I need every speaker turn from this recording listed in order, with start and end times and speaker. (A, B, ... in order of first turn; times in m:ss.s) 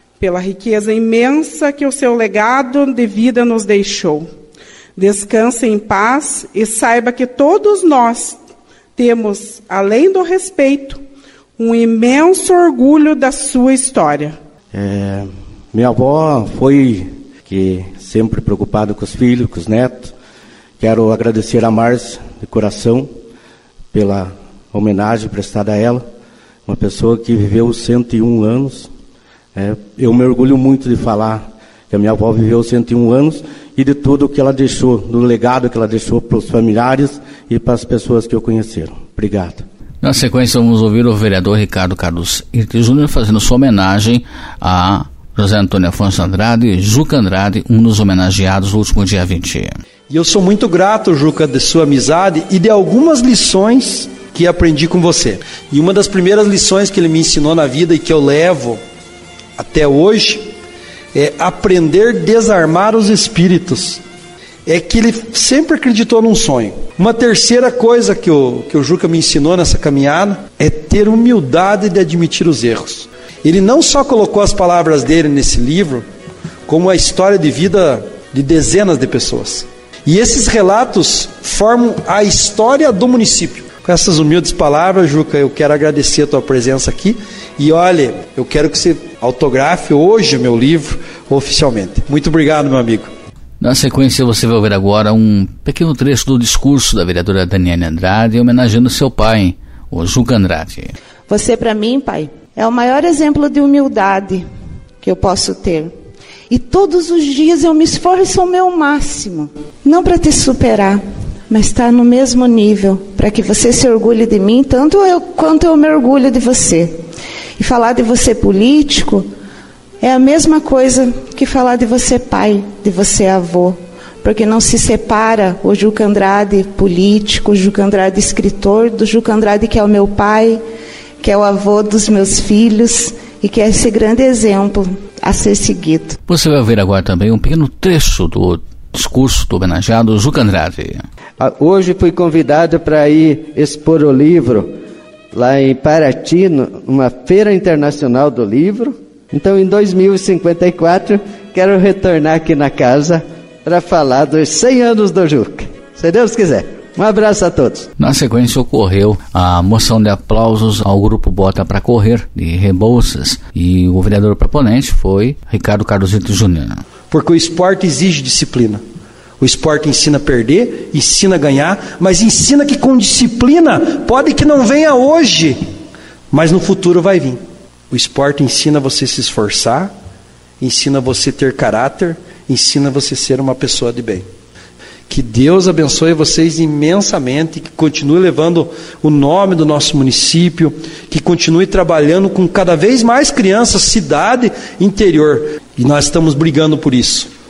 0:00.2-0:04.3 A
0:05.0-0:08.4 A
0:09.0-0:11.0 A
0:11.6-0:14.4 A
0:14.7-0:20.1 B
0:20.8-0:23.1 B
0:23.9-0:26.0 B
0:26.7-0:28.9 B
0:29.6-0:39.6 B
0:40.0-0:49.8 C
0:50.1-0:58.8 D
0:59.6-1:00.5 D
1:01.1-1:04.0 D
1:04.7-1:16.1 D
1:16.7-1:33.1 D
1:33.6-1:40.9 C
1:41.3-1:44.5 E
1:45.0-1:45.9 E
1:46.5-1:57.0 E
1:57.6-1:59.3 E
2:00.0-2:10.6 E
2:11.2-2:16.2 E
2:16.3-2:21.0 C
2:21.4-2:24.7 F
2:25.3-2:37.9 F
2:38.0-2:46.8 C
2:47.1-2:48.8 D
2:49.4-2:55.6 D
2:56.3-2:57.4 D
2:57.9-2:59.9 D
3:00.6-3:04.3 D
3:05.1-3:17.3 D